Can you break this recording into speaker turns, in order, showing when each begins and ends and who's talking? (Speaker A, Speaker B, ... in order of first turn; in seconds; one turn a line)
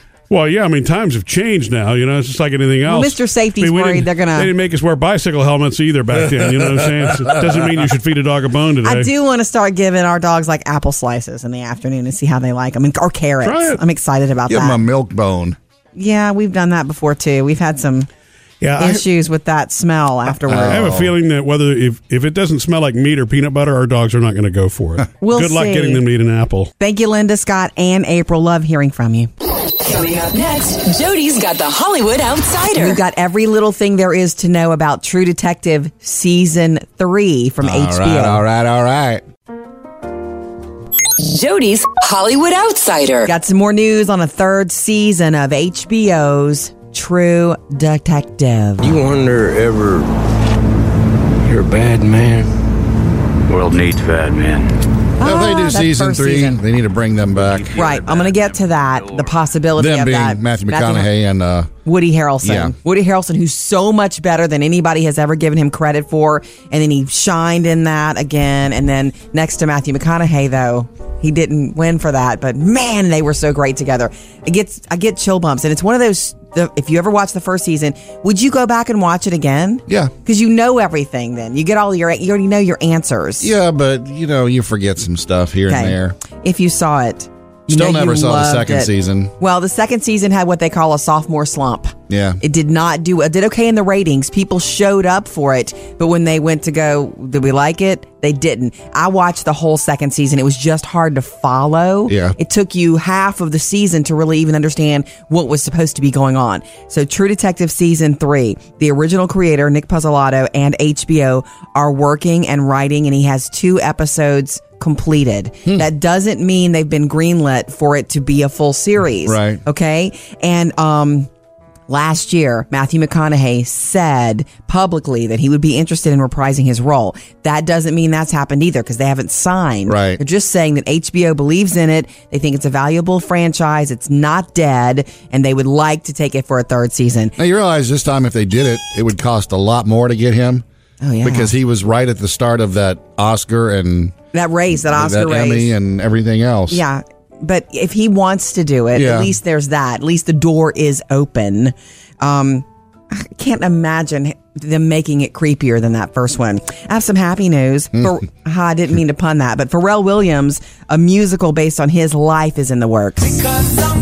Speaker A: 0.3-9.1
Speaker B: 2.9-4.5
Speaker C: 6.4-7.4
Speaker B: 8.8-14.8
Speaker A: 13.4-13.8
Speaker C: 14.5-15.6
Speaker B: 15.9-18.1
Speaker A: 18.6-19.0
Speaker B: 18.8-20.9
Speaker C: 20.4-21.1
Speaker A: 20.6-26.7
Speaker B: 25.2-26.0
Speaker B: 26.8-29.3
Speaker D: 29.8-33.0
Speaker B: 32.8-38.4
Speaker C: 37.6-39.2
Speaker D: 41.2-43.3
Speaker B: 43.2-49.0
Speaker E: 48.8-50.1
Speaker E: 51.4-52.5
Speaker F: 53.5-54.8
Speaker B: 55.2-56.6
Speaker C: 55.2-57.8
Speaker F: 57.4-59.3
Speaker B: 57.7-61.1
Speaker C: 59.8-61.7
Speaker B: 61.8-83.5
Speaker C: 62.4-62.7
Speaker C: 79.9-80.1
Speaker C: 83.4-86.2
Speaker B: 85.7-88.9
Speaker C: 87.7-89.3
Speaker B: 89.4-121.3
Speaker C: 92.1-92.4
Speaker C: 102.1-102.3
Speaker C: 119.2-119.6
Speaker B: 121.9-137.3
Speaker C: 129.9-130.2
Speaker C: 137.4-140.6
Speaker B: 141.0-141.5
Speaker C: 141.2-144.1
Speaker B: 144.3-145.7
Speaker C: 144.8-146.8
Speaker B: 146.7-163.4
Speaker C: 148.9-149.3